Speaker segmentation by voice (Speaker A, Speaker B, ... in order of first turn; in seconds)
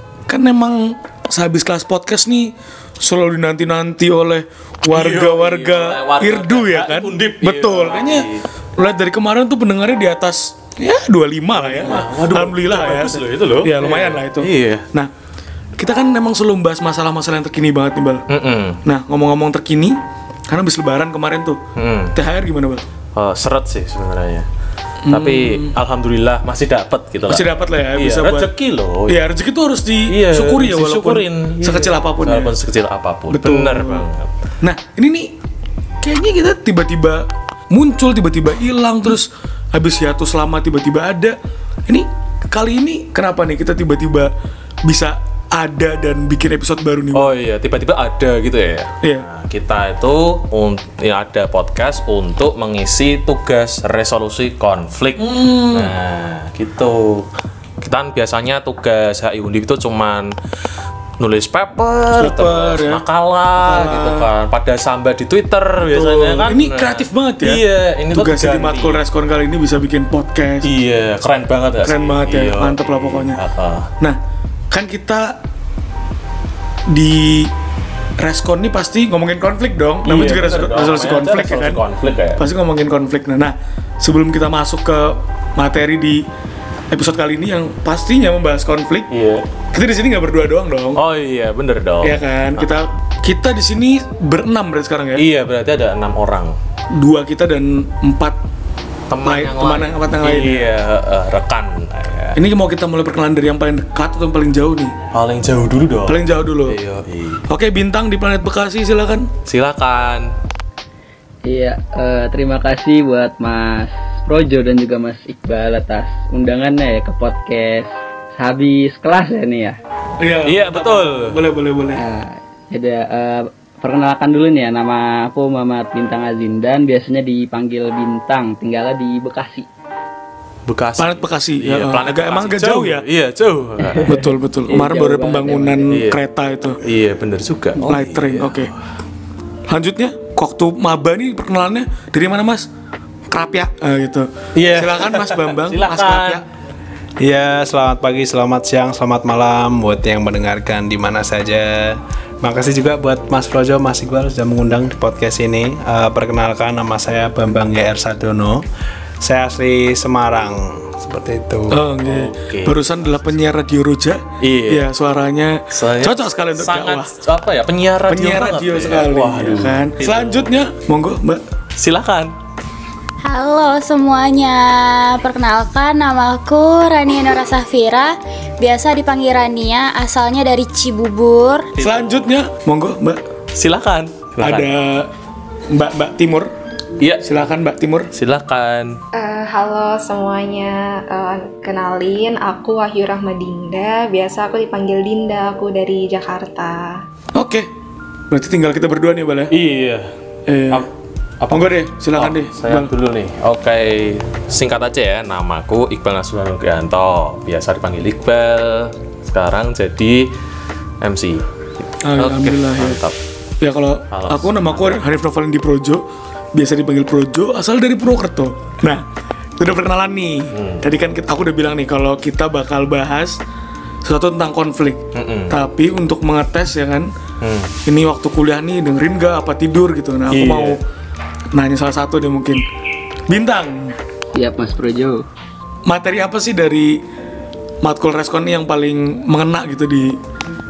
Speaker A: 0.3-15.1, 15.8-18.2, 18.9-21.6, 22.1-22.9, 25.1-25.7, 27.3-28.5, 29.1-32.5, 33.3-34.1, 34.6-35.3, 36.0-41.4, 41.9-44.3, 44.9-47.3, 55.2-56.0, 62.1-63.0, 63.5-64.3, 65.8-70.7, 71.8-73.4, 74.7-75.4, 76.9-77.5, 78.2-81.8, 82.4-86.2, 86.9-89.1, 89.7-91.0, 92.0-95.2, 97.0-98.4, 99.2-100.7, 102.4-104.9, 106.1-106.8, 107.5-109.3, 120.2-122.0, 131.0-133.1, 134.1-136.8, 137.8-138.7, 139.7-142.7, 143.3-146.4, 161.7-167.2, 168.1-171.4, 181.8-183.2, 184.4-185.1, 185.7-186.5, 187.2-188.1, 197.3-197.7, 198.3-199.5, 200.5-200.9, 201.5-202.9, 212.0-213.0, 213.6-216.0, 216.5-219.0, 219.6-223.4, 224.0-227.1, 227.8-230.8, 231.5-232.6, 233.3-234.0, 235.9-237.0, 237.8-240.1
Speaker B: 4.9-8.4, 11.6-14.8, 18.3-18.8, 21.8-22.1, 23.1-24.5, 25.1-29.2, 30.1-34.3, 47.1-57.3, 57.8-60.3, 61.2-69.1, 70.6-73.9, 80.0-82.4, 89.1-89.5, 91.0-92.7, 95.2-96.5, 99.1-102.4, 105.1-107.4, 109.5-110.3, 120.4-121.4, 130.7-134.3, 135.9-136.2, 136.8-138.7, 144.6-146.4, 162.0-163.5, 164.4-164.9, 165.7-170.5, 171.8-172.3, 181.8-182.3, 183.5-184.7, 187.0-187.3, 188.1-189.0, 199.5-200.1, 200.7-210.3, 211.0-213.2, 214.1-215.0, 220.6-220.8, 225.1-225.6, 227.4-227.7, 230.3-230.8
Speaker C: 111.5-119.8, 122.0-129.7, 133.8-135.9, 234.3-235.3
Speaker D: 147.2-158.6, 159.2-161.8
Speaker E: 173.2-181.7
Speaker F: 189.2-196.9